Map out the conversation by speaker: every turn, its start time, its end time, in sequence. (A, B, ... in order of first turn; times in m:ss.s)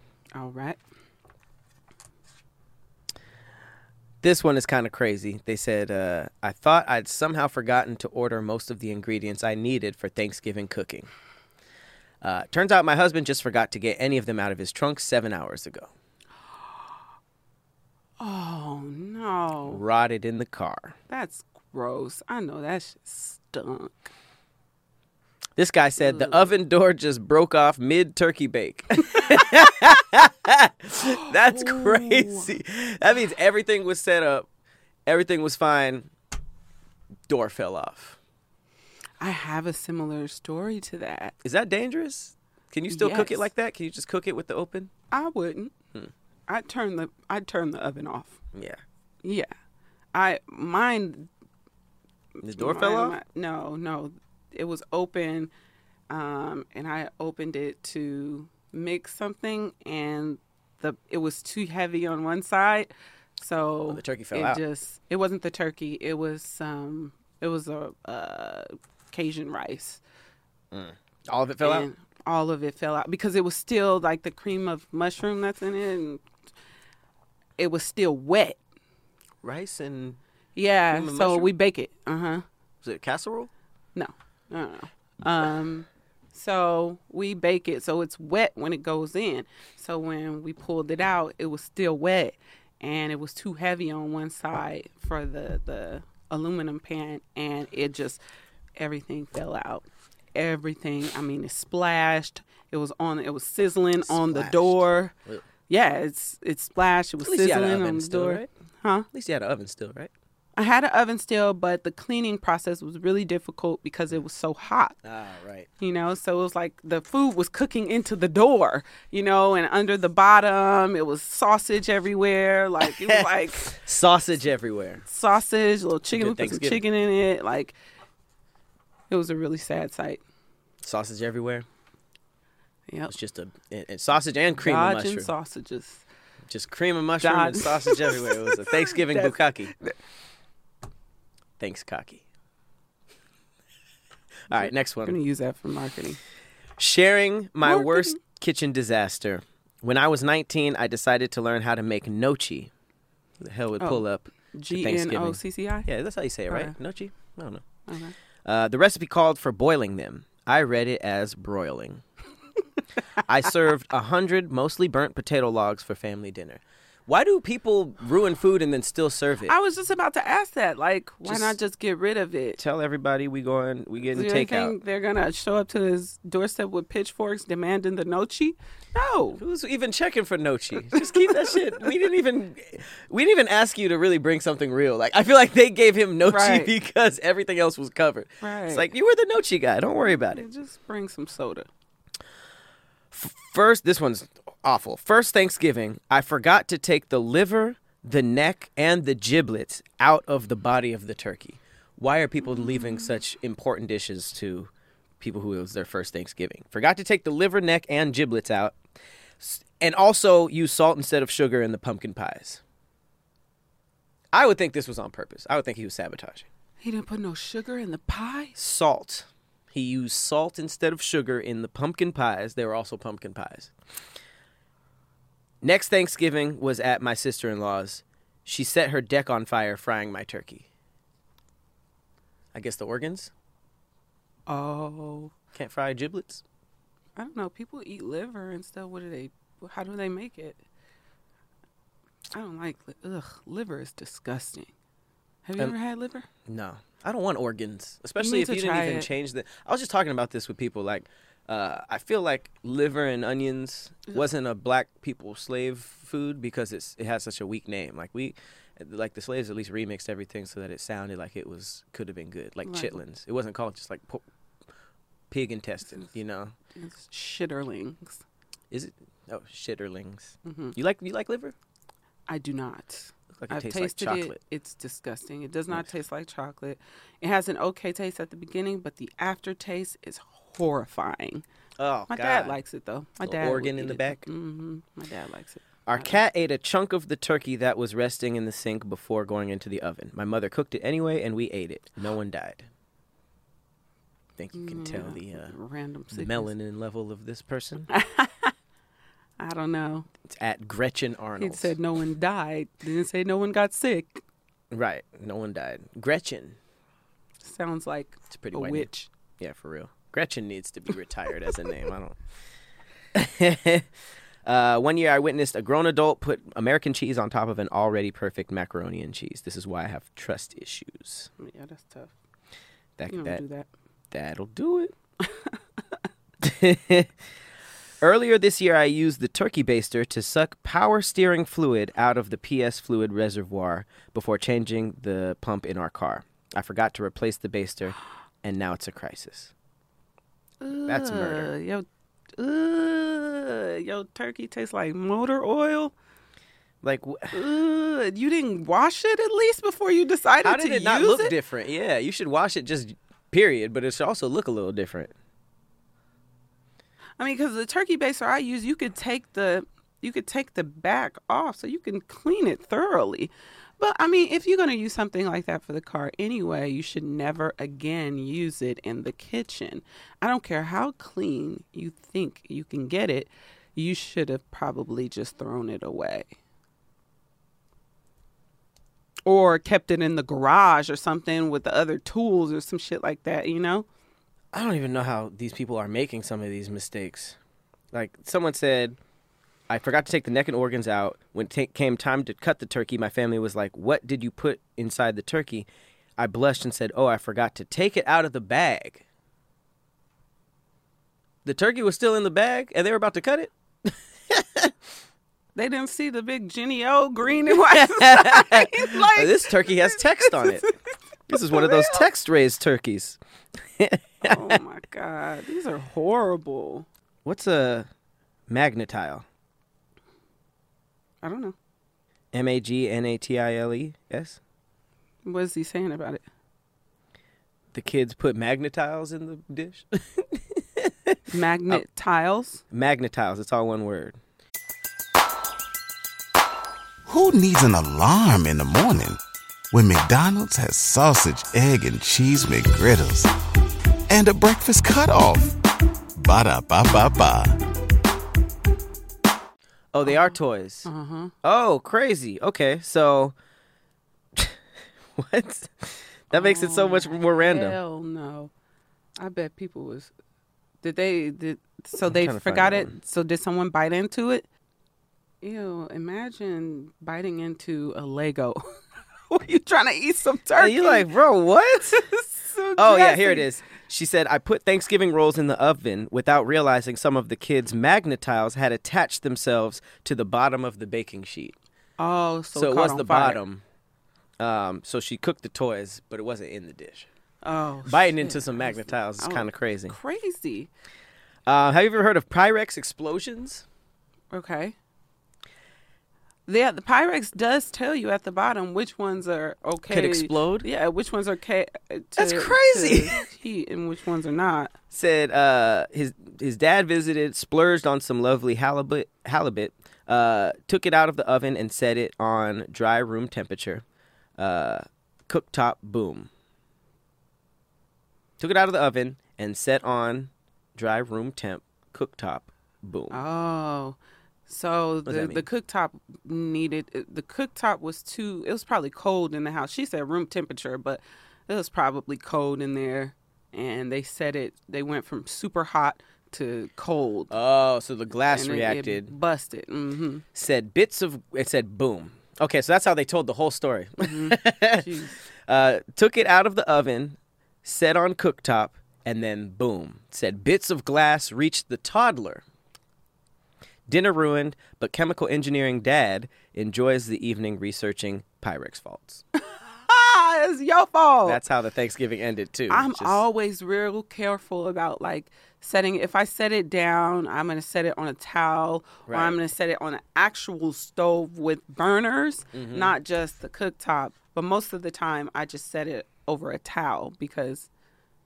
0:00.4-0:00.8 A
0:04.2-0:11.1 B
0:12.2-0:15.9 B
0:18.2-0:19.8 A
0:19.7-0:21.0 B
0:21.1-0:24.1 A
0:25.6-0:34.4 B
0:26.0-0:26.5 A
0:29.0-0:29.5 A
0:31.3-0:32.5 A
0:35.1-0:36.1 B
0:37.3-0:38.2 B
0:39.2-0:41.4 A
0:41.4-0:44.9 B
0:42.9-0:43.5 A
0:45.1-0:45.7 A
0:46.5-0:48.4 A
0:48.5-0:48.8 B
0:49.2-0:49.5 A
0:50.1-0:51.3 A
0:52.4-0:53.2 B
0:52.6-0:55.5 A
0:56.1-1:10.0 A
1:03.9-1:04.6 B
1:10.7-1:11.9 B
1:11.6-1:16.2 A
1:17.6-1:18.6 A
1:19.4-1:20.2 B
1:20.6-1:22.4 A
1:20.9-1:21.5 B
1:22.8-1:23.5 B
1:24.0-1:38.2 A
1:38.8-1:45.1 A
1:44.1-1:45.4 B
1:45.7-1:49.1 A
1:47.2-1:48.5 B
1:49.1-1:50.1 B
1:50.6-1:55.0 A
1:55.0-1:55.7 B
1:55.8-2:03.7 A
2:02.9-2:05.0 B
2:05.1-2:07.8 A
2:06.1-2:06.8 B
2:09.1-2:10.2 A
2:10.8-2:11.7 B
2:13.1-2:15.3 B
2:14.6-2:16.0 A
2:16.5-2:19.7 B
2:17.2-2:19.9 A
2:21.6-2:22.2 B
2:24.5-2:25.2 B
2:24.5-2:26.2 A
2:26.8-2:32.7 B
2:27.6-2:28.2 A
2:33.4-2:37.6 B
2:33.8-2:35.9 A
2:36.5-2:36.8 A
2:37.9-2:38.1 A
2:38.4-2:42.0 B
2:43.2-2:49.5 B
2:49.5-2:52.6 A
2:51.3-2:51.6 B
2:52.6-2:54.8 B
2:54.1-2:59.4 A
2:59.4-3:10.4 B
3:01.0-3:01.5 A
3:06.2-3:06.7 A
3:08.4-3:08.9 A
3:10.0-3:11.7 A
3:13.1-3:28.8 B
3:29.4-3:32.6 B
3:34.3-3:36.4 B
3:36.8-3:38.6 A
3:38.6-3:43.7 B
3:45.6-3:50.7 B
3:52.5-3:53.3 B
3:54.5-3:55.3 A
3:55.5-3:56.4 B
3:57.2-4:00.6 A
4:02.3-4:04.7 A
4:05.4-4:06.3 A
4:06.4-4:24.2 B
4:08.2-4:09.1 A
4:22.6-4:23.0 A
4:25.3-4:26.5 B
4:26.8-4:28.2 A
4:28.7-4:31.6 B
4:30.4-4:30.8 A
4:32.3-4:41.4 A
4:33.4-4:34.4 B
4:41.8-4:42.6 B
4:42.1-4:46.2 A
4:43.2-4:44.3 B
4:45.9-4:52.7 B
4:54.4-4:55.6 B
4:54.6-4:56.5 A
4:56.1-4:57.9 B
4:57.9-4:58.5 A
4:59.4-5:00.1 A
5:00.3-5:01.7 B
5:01.4-5:04.2 A
5:04.7-5:06.6 B
5:07.4-5:09.1 A
5:08.3-5:08.9 B
5:09.4-5:12.2 B
5:13.1-5:13.9 B
5:14.4-5:21.3 B
5:21.4-5:22.1 A
5:23.0-5:23.4 B
5:23.1-5:23.7 A
5:24.1-5:24.9 B
5:26.4-5:27.1 B
5:28.0-5:39.5 B
5:40.6-5:41.9 A
5:40.9-5:41.5 B
5:42.4-5:45.9 A
5:46.8-5:47.4 B
5:47.3-5:51.3 A
5:50.4-5:55.1 B
5:57.2-6:16.3 A
6:19.3-6:23.9 A
6:24.5-6:27.4 B
6:27.9-6:29.0 B
6:29.7-6:39.0 B
6:41.4-6:44.7 B
6:45.6-6:50.7 A
6:47.5-6:50.7 B
6:51.3-6:53.2 B
6:51.3-6:52.1 A
6:53.8-6:54.6 B
6:54.2-6:56.9 A
6:57.2-6:57.9 B
6:58.5-6:59.2 B
7:01.2-7:01.6 A
7:02.3-7:04.4 B
7:05.2-7:06.2 A
7:07.7-7:11.8 B
7:11.3-7:12.6 A
7:12.7-7:14.2 B
7:17.1-7:19.2 C
7:19.7-7:23.3 C
7:24.1-7:25.6 C
7:26.2-7:27.6 C
7:29.9-7:30.9 B
7:30.0-7:30.3 A
7:30.8-7:31.3 A
7:31.4-7:33.3 B
7:35.2-7:37.8 B
7:36.3-7:38.5 A
7:39.2-7:40.1 A
7:40.8-7:44.4 A
7:42.0-7:43.0 B
7:45.4-7:48.6 A
7:49.3-7:51.1 A
7:50.6-7:52.0 B
7:51.8-7:53.5 A
7:52.8-8:01.6 B
8:02.0-8:03.4 A
8:02.6-8:03.6 B
8:04.4-8:07.1 B
8:07.4-8:10.7 A
8:07.9-8:10.0 B
8:11.4-8:13.6 B
8:14.3-8:14.8 A
8:16.5-8:24.7 A
8:19.9-8:20.7 B
8:22.2-8:23.2 B
8:24.9-8:33.8 B
8:34.4-8:36.3 B
8:38.4-8:43.2 B
8:43.1-8:57.3 A
8:45.1-8:45.4 B
8:57.3-8:59.1 B
8:58.3-9:00.2 A
9:00.4-9:04.9 B
9:04.0-9:05.2 A
9:05.5-9:12.4 B
9:13.9-9:19.2 B
9:19.5-9:21.4 A
9:21.3-9:23.2 B
9:22.7-9:37.7 A
9:29.1-9:29.4 B
9:32.5-9:33.0 B